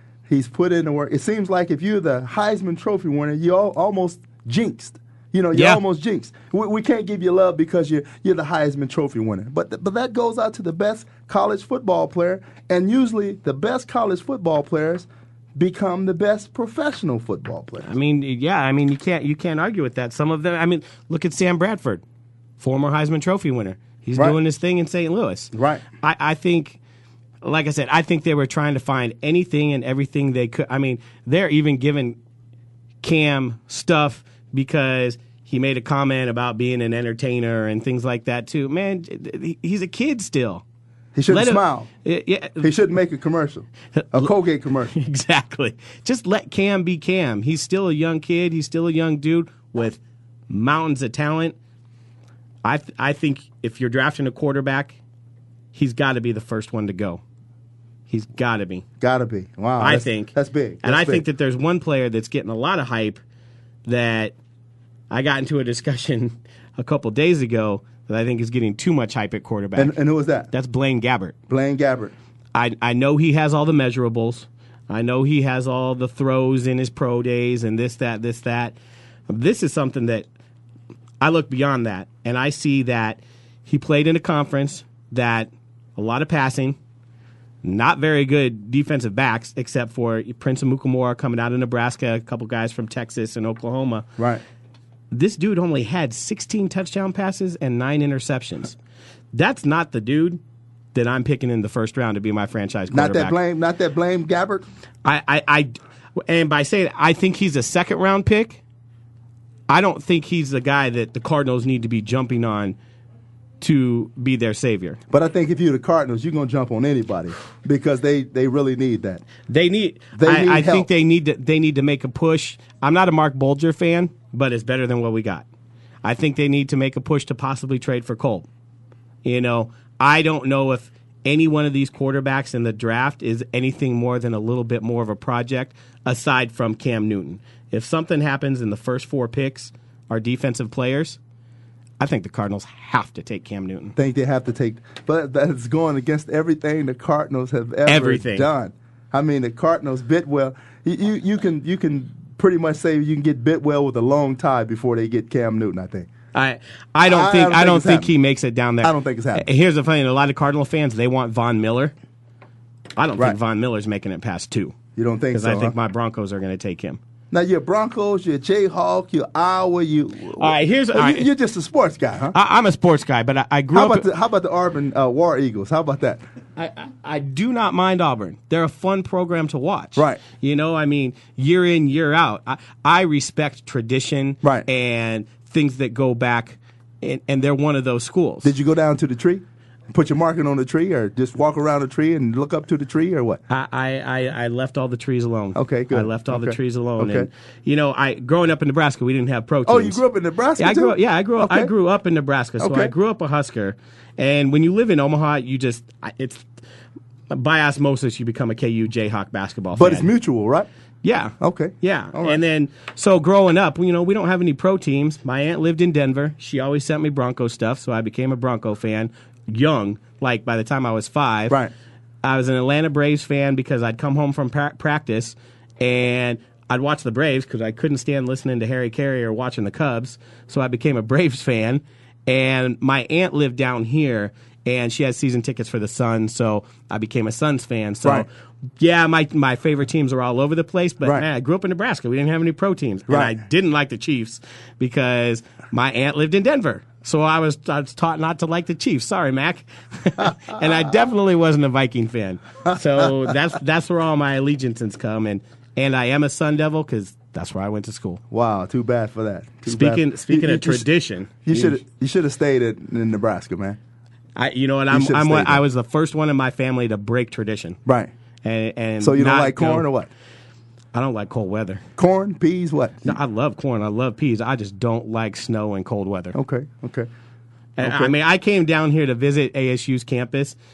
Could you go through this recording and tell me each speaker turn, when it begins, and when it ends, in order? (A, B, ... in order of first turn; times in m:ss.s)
0:00.3-0:17.9 A
0:05.5-0:05.8 B
0:17.8-0:22.0 B
0:22.6-0:26.8 B
0:25.5-0:25.8 A
0:27.4-0:32.2 B
0:33.0-0:40.6 B
0:41.2-0:41.9 A
0:41.3-0:42.7 B
0:42.6-0:44.9 A
0:44.0-0:44.3 B
0:44.9-0:51.6 B
0:52.6-0:55.0 B
0:55.7-0:57.2 B
0:58.1-0:58.8 B
0:59.0-1:01.2 A
0:59.8-1:03.2 B
1:03.9-1:04.4 B
1:05.1-1:10.0 B
1:09.8-1:10.5 A
1:10.5-1:11.4 B
1:11.5-1:12.1 A
1:12.5-1:18.8 B
1:19.3-1:20.3 B
1:21.2-1:26.8 B
1:27.6-1:34.1 B
1:35.1-1:38.8 B
1:39.3-1:40.4 B
1:40.9-1:43.4 B
1:42.9-1:44.7 A
1:45.0-1:45.7 B
1:46.2-1:48.6 B
1:49.7-1:52.8 B
1:53.6-1:55.0 B
1:55.1-1:59.2 A
1:59.5-2:05.5 B
2:00.2-2:00.9 A
2:06.0-2:08.5 B
2:09.2-2:21.2 B
2:22.0-2:24.0 B
2:24.0-2:36.1 A
2:27.9-2:28.5 B
2:36.3-2:41.9 B
2:37.1-2:38.1 A
2:38.8-2:39.5 A
2:43.0-2:44.8 B
2:45.0-2:45.7 A
2:45.3-2:47.0 B
2:47.3-2:52.4 A
2:50.4-2:51.3 B
2:52.3-2:54.1 B
2:53.7-2:56.2 A
2:56.6-3:08.5 B
3:00.0-3:00.2 A
3:08.4-3:13.4 A
3:13.5-3:20.0 B
3:15.6-3:17.3 A
3:19.7-3:21.7 A
3:20.6-3:26.5 B
3:22.6-3:22.9 A
3:27.3-3:30.1 B
3:29.8-3:30.7 A
3:31.0-3:41.6 B
3:31.4-3:32.4 A
3:42.2-4:18.2 B
4:03.1-4:03.4 A
4:18.3-4:20.9 A
4:19.7-4:21.8 B
4:21.5-4:23.8 A
4:24.4-4:27.8 B
4:24.9-4:25.6 A
4:27.9-4:28.1 A
4:28.4-4:29.9 B
4:29.0-4:30.1 A
4:30.9-4:31.8 B
4:32.0-4:33.2 A
4:33.0-4:36.4 B
4:36.3-4:37.1 A
4:37.8-4:40.6 B
4:37.8-4:38.1 A